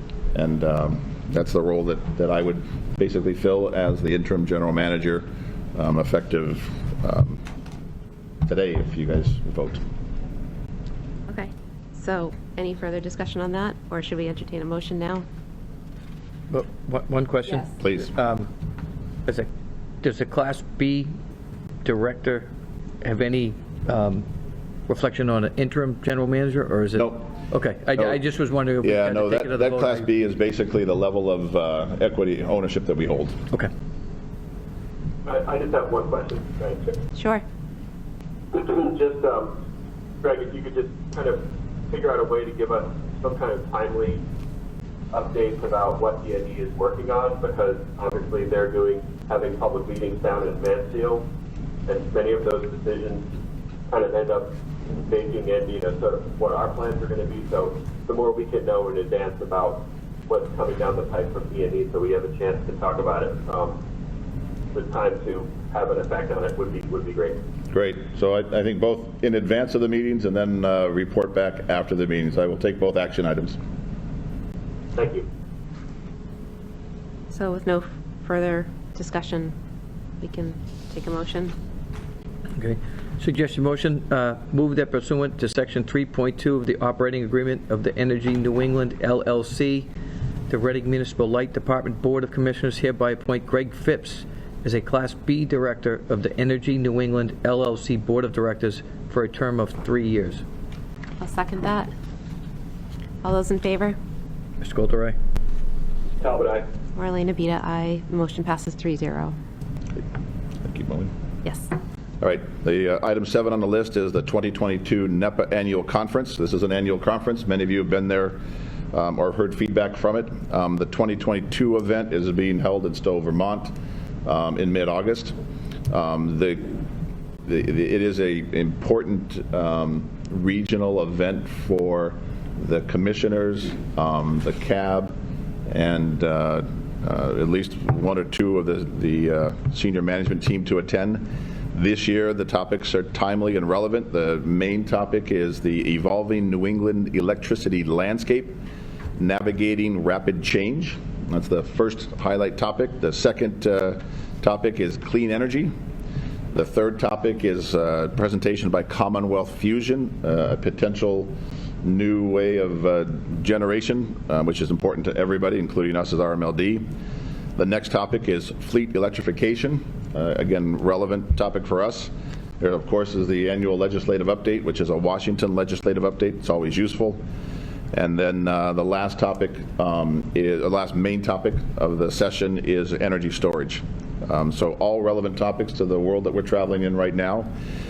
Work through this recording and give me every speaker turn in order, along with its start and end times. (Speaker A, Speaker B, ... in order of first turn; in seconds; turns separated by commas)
Speaker A: 0.3-7.4, Speaker A: 8.5-9.8, Speaker B: 11.3-15.2, Speaker C: 16.5-18.5, Speaker A: 17.8-18.1, Speaker C: 20.0-21.1, Speaker C: 21.8-22.5, Speaker C: 23.0-24.3, Speaker C: 24.9-30.1, Speaker A: 26.9-27.3, Speaker A: 28.8-33.4, Speaker D: 35.2-37.0, Speaker B: 37.1-37.4, Speaker D: 38.5-39.6, Speaker D: 40.2-44.2, Speaker D: 45.1-51.3, Speaker D: 51.9-53.3, Speaker D: 53.9-63.8, Speaker D: 64.7-67.4, Speaker A: 67.7-73.6, Speaker D: 75.0-75.3, Speaker B: 77.3-79.5, Speaker B: 80.2-81.5, Speaker C: 82.6-89.9, Speaker C: 90.5-100.4, Speaker B: 101.2-101.9, Speaker B: 103.2-104.0, Speaker C: 104.6-105.2, Speaker D: 106.2-106.7, Speaker B: 107.0-109.3, Speaker A: 110.6-111.1, Speaker B: 111.4-111.7, Speaker A: 112.2-118.4, Speaker A: 118.9-123.7, Speaker A: 124.2-125.4, Speaker A: 125.9-126.8, Speaker A: 127.5-135.2, Speaker A: 135.7-148.6, Speaker A: 149.2-155.7, Speaker A: 156.5-166.9, Speaker A: 167.6-177.2, Speaker A: 177.9-187.5